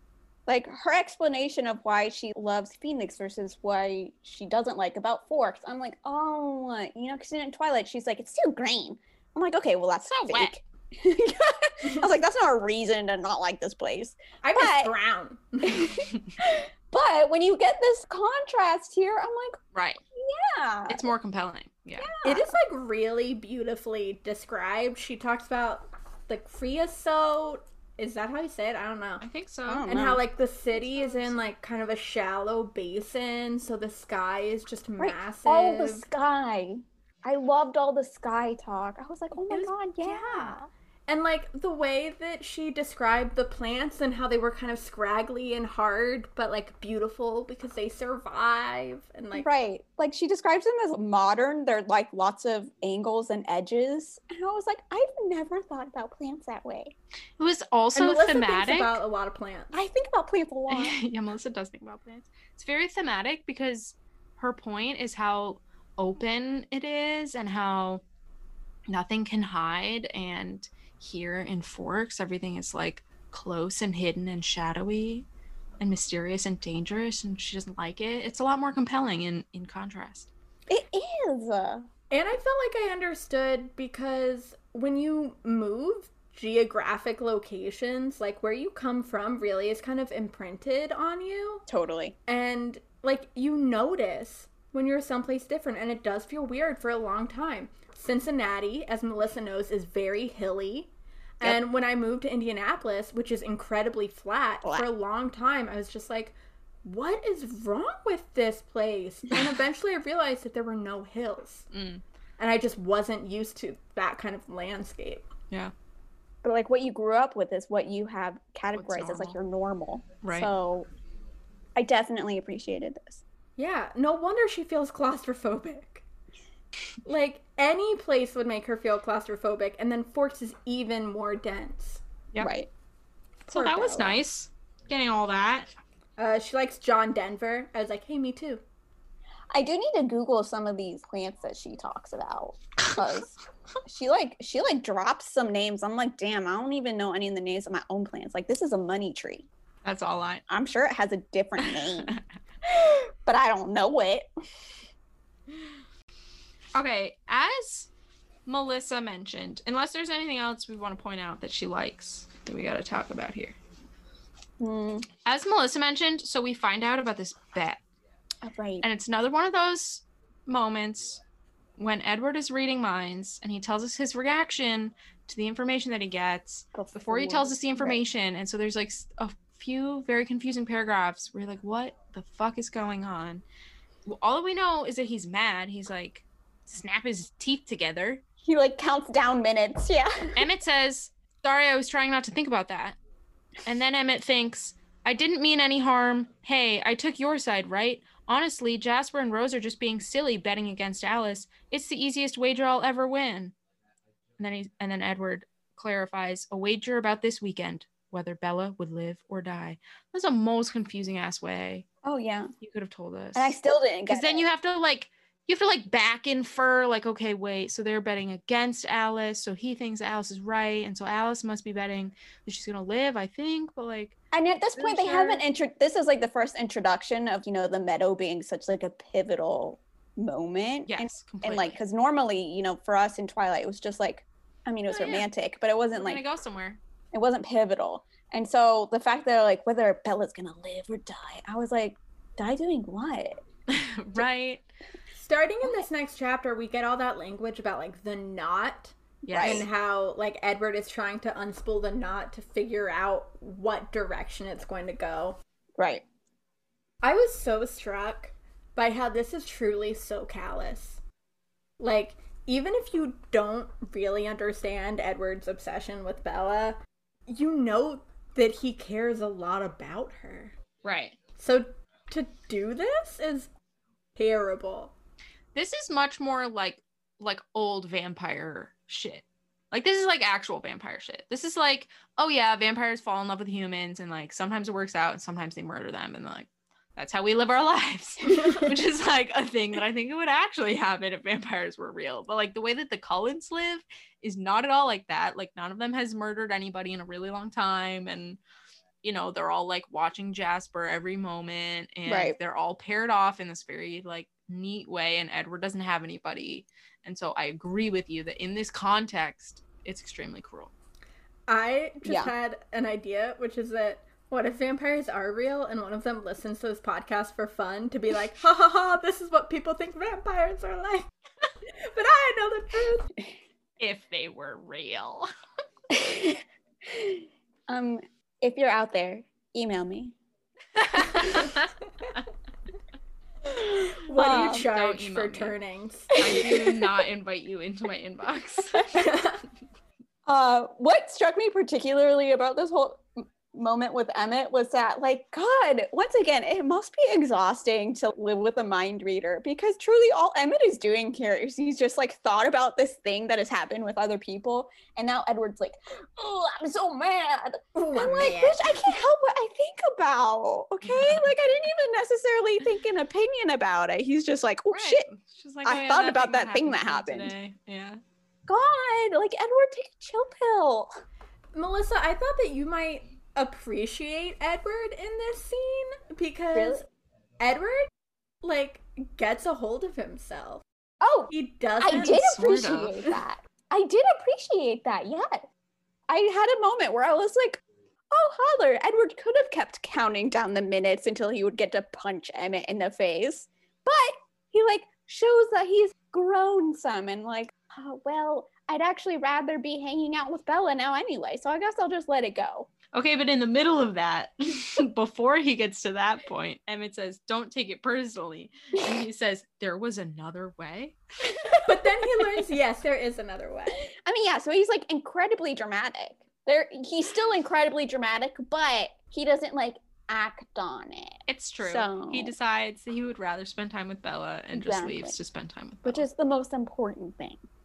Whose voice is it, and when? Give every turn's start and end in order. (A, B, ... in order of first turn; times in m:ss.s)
0:00.5-0:14.9 A
0:10.1-0:10.5 B
0:14.4-0:16.1 C
0:15.6-0:19.6 A
0:19.7-0:20.0 B
0:20.1-0:21.0 A
0:20.9-0:22.1 B
0:22.0-0:22.6 A
0:22.2-0:29.2 C
0:29.2-0:29.9 B
0:29.7-0:30.2 A
0:29.9-0:36.1 C
0:30.7-0:31.4 A
0:35.0-0:40.6 A
0:39.5-0:49.5 C
0:49.3-0:57.0 A
0:57.4-0:59.0 B
0:58.0-0:59.8 C
0:59.7-1:01.0 A
1:00.7-1:08.0 B
1:08.9-1:15.3 B
1:15.8-1:20.3 B
1:20.7-1:21.9 A
1:22.1-1:31.6 C
1:31.7-1:32.2 A
1:32.3-1:51.7 C
1:51.7-1:52.0 B
1:52.4-1:55.3 C
1:56.4-2:00.9 A
1:58.7-1:59.4 B
2:00.2-2:00.5 B
2:01.8-2:03.2 A
2:03.6-2:06.0 C
2:07.0-2:12.0 C
2:12.4-2:12.7 A
2:13.5-2:14.2 C
2:13.5-2:15.7 B
2:16.2-2:18.6 C
2:19.5-2:29.5 A
2:29.8-2:30.4 B
2:30.5-2:34.3 A
2:31.6-2:32.2 B
2:36.8-2:37.9 B
2:38.5-2:43.6 B
2:44.6-2:45.1 A
2:45.2-2:47.8 B
2:48.4-2:48.9 A
2:48.8-2:51.2 B
2:51.8-3:03.4 B
2:56.7-2:58.0 A
3:04.0-3:08.2 B
3:08.4-3:10.4 A
3:10.4-3:13.0 B
3:13.6-3:23.5 B
3:24.4-3:31.8 B
3:32.0-3:32.5 A
3:32.6-3:33.5 B
3:33.4-3:34.5 A
3:34.1-3:44.2 B
3:44.3-3:56.2 A
3:44.8-3:45.4 B
3:50.9-3:51.8 B
3:54.9-3:55.3 B
3:55.9-3:56.8 B
3:57.1-4:03.4 A
4:03.7-4:04.6 B
4:05.2-4:15.4 C
4:09.2-4:09.7 B
4:09.3-4:09.7 A
4:15.8-4:16.0 A
4:17.0-4:21.0 C
4:21.8-4:26.8 C
4:27.3-4:30.5 C
4:30.8-4:31.2 B
4:31.4-4:33.5 C
4:34.2-4:34.9 C
4:35.6-4:58.4 B
4:59.0-5:10.7 B
5:02.1-5:02.4 A
5:11.5-5:21.1 C
5:12.0-5:12.3 A
5:21.8-5:23.1 C
5:23.8-5:25.3 B
5:25.9-5:30.2 A
5:30.8-5:31.6 B
5:33.7-5:36.5 C
5:34.1-5:34.7 A
5:34.2-5:35.6 B
5:36.2-5:39.0 B
5:36.2-5:36.5 A
5:38.9-5:39.4 C
5:40.3-6:05.1 A
5:57.8-5:58.9 C
6:00.8-6:01.3 B
6:04.7-6:08.0 B
6:05.6-6:07.3 A
6:08.5-6:10.9 A
6:11.5-6:16.8 C
6:16.5-6:16.8 A
6:17.4-6:17.9 C
6:18.4-6:20.6 C
6:21.0-6:25.5 A
6:21.3-6:22.4 C
6:21.9-6:23.1 B
6:26.1-6:42.7 A
6:42.9-6:51.6 B
6:51.6-6:53.8 C
6:53.8-7:02.4 A
7:01.3-7:06.1 B
7:04.5-7:05.1 A
7:05.8-7:07.4 A